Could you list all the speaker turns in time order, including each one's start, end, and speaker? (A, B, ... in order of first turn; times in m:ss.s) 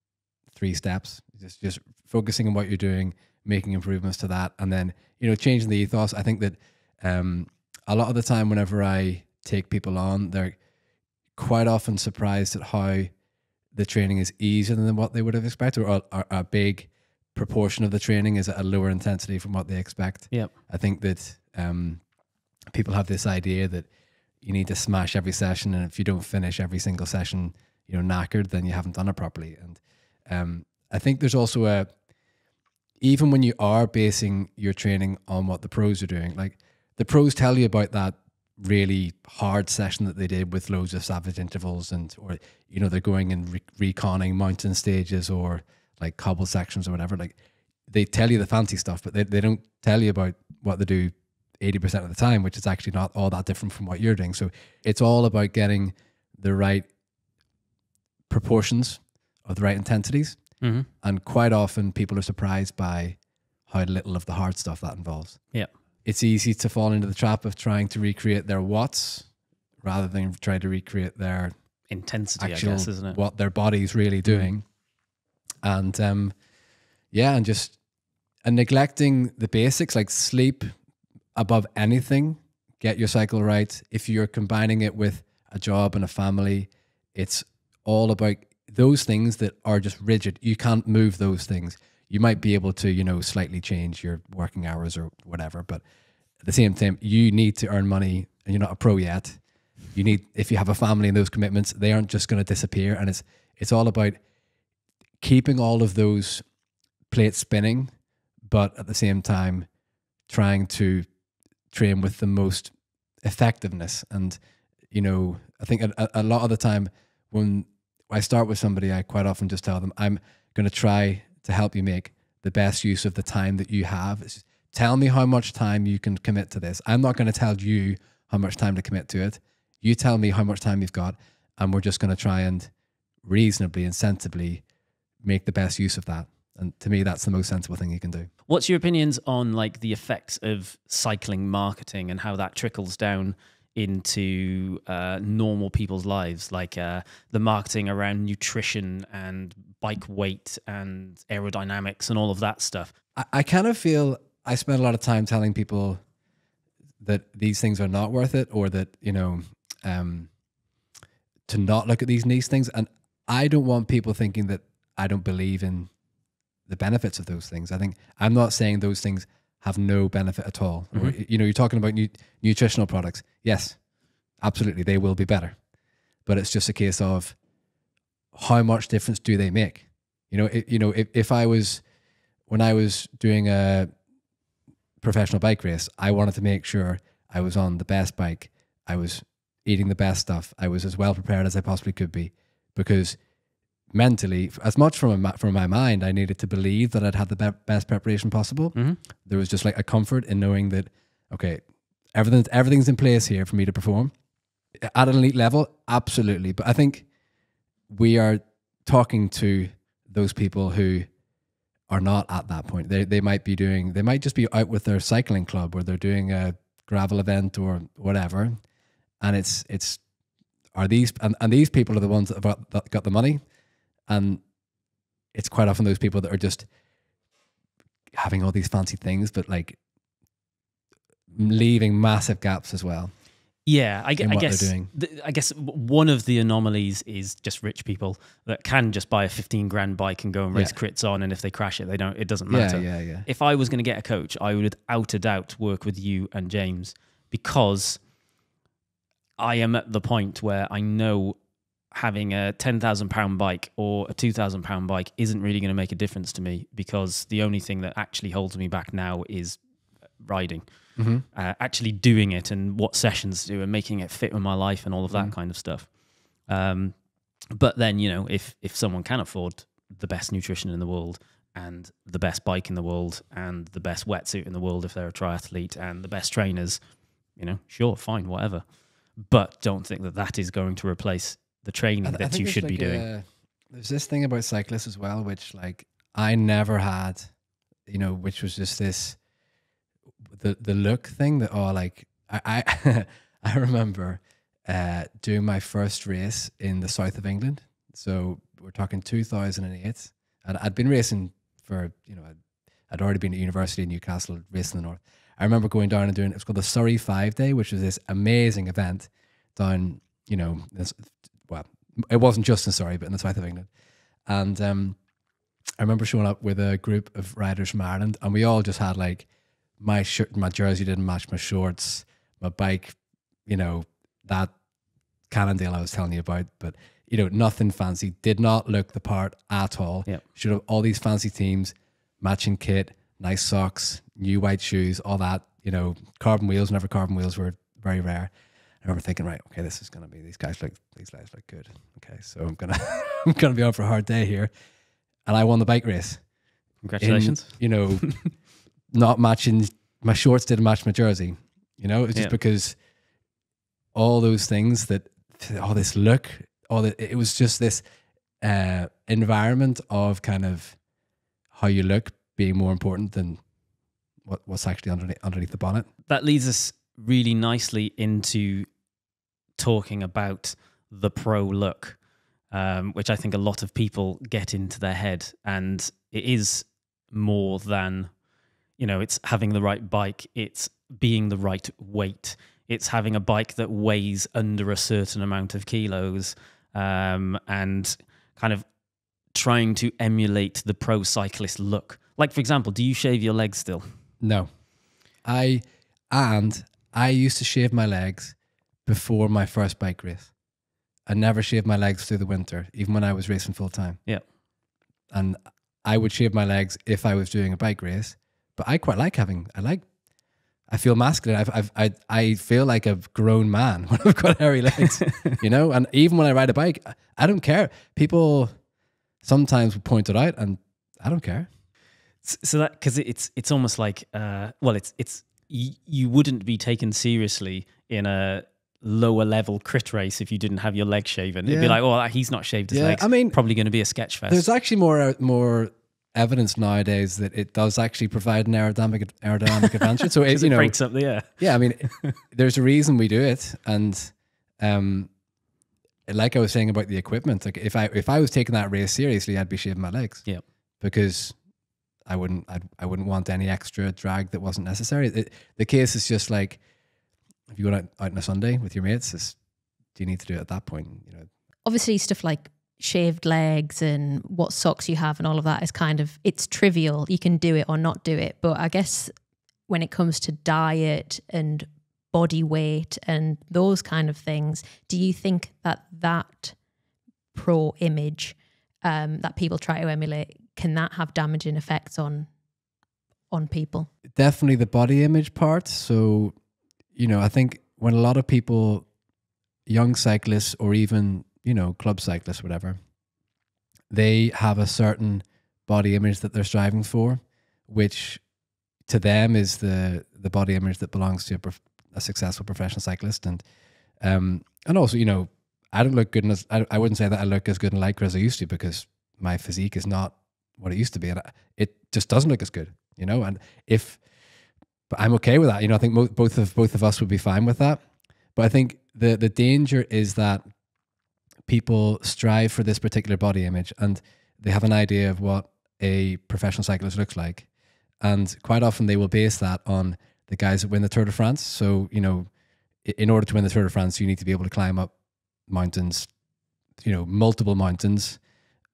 0:00.5-0:10.6 A
0:11.4-0:13.1 A
0:13.7-0:22.0 A
0:22.7-0:23.9 A
0:24.4-0:31.9 A
0:33.0-0:47.4 A
0:47.9-0:56.9 A
0:58.3-1:00.4 A
1:00.6-1:00.9 B
1:01.0-1:03.2 A
1:03.7-1:05.4 A
1:06.0-1:09.3 A
1:09.8-1:11.5 A
1:11.9-1:13.2 B
1:12.4-1:14.7 A
1:15.6-1:16.3 A
1:17.1-1:17.8 A
1:18.4-1:20.7 A
1:21.4-1:35.8 A
1:36.4-1:39.4 A
1:39.9-1:44.2 A
1:45.2-1:46.4 A
1:47.1-1:47.9 A
1:48.5-1:49.7 A
1:50.3-1:51.1 A
1:51.7-1:52.7 A
1:53.2-1:54.4 A
1:54.9-2:12.7 A
2:13.2-2:14.6 A
2:15.2-2:18.3 A
2:18.5-2:32.9 B
2:33.2-2:36.0 A
2:37.0-2:40.3 A
2:41.5-2:45.9 A
2:46.7-2:53.8 A
2:54.4-2:55.6 A
2:56.3-2:57.4 A
2:58.3-3:01.8 A
3:02.5-3:03.9 A
3:05.0-3:13.2 A
3:13.9-3:21.6 A
3:22.1-3:24.1 A
3:24.8-3:27.1 A
3:27.9-3:31.1 A
3:31.9-3:38.6 A
3:39.2-3:40.0 A
3:40.8-3:43.4 A
3:44.1-3:44.4 A
3:45.3-3:46.7 A
3:48.1-3:49.8 A
3:51.3-3:53.1 A
3:53.7-4:08.0 B
3:54.2-3:54.9 A
4:02.5-4:03.3 A
4:09.4-4:11.4 B
4:11.9-4:19.6 B
4:20.2-4:20.6 B
4:21.0-4:21.2 A
4:21.3-4:25.9 B
4:26.5-4:27.0 B
4:27.5-4:36.8 B
4:37.4-4:38.6 B
4:39.2-4:43.0 B
4:42.0-4:47.3 A
4:47.9-4:49.2 A
4:50.4-5:02.3 A
5:02.9-5:13.7 A
5:14.3-5:15.0 A
5:15.8-5:19.3 A
5:19.8-5:24.5 A
5:25.3-5:38.3 A
5:38.8-5:44.5 A
5:45.3-5:46.2 A
5:46.8-5:48.2 B
5:47.0-5:48.1 A
5:48.9-5:52.8 A
5:53.9-5:57.8 A
5:58.4-6:00.8 A
6:01.5-6:03.4 A
6:04.2-6:05.9 A
6:06.1-6:08.7 B
6:09.6-6:12.0 B
6:12.5-6:18.1 B
6:18.8-6:28.7 B
6:29.3-6:33.9 B
6:34.2-6:34.5 A
6:35.2-6:40.3 A
6:41.1-6:44.0 A
6:45.1-6:49.8 A
6:50.7-6:58.5 A
6:59.2-7:01.5 A
7:02.2-7:14.5 B
7:11.4-7:11.8 A
7:12.7-7:13.4 A
7:14.3-7:20.8 A
7:20.2-7:22.1 B
7:21.4-7:25.1 A
7:26.1-7:30.3 A
7:30.8-7:31.4 A
7:32.1-7:36.6 A
7:37.5-7:39.4 A
7:40.0-7:41.3 A
7:41.6-7:49.1 C
7:49.7-7:56.6 C
7:57.4-8:02.3 C
8:03.3-8:03.9 C
8:04.2-8:06.4 A
8:07.0-8:08.9 A
8:09.7-8:12.8 A
8:13.9-8:18.2 A
8:18.9-8:23.4 A
8:24.0-8:34.0 A
8:34.9-8:37.8 A
8:38.4-8:40.4 A
8:41.5-8:47.5 A
8:48.0-8:52.3 A
8:52.8-8:54.9 A
8:55.5-8:56.1 A
8:56.8-8:58.2 A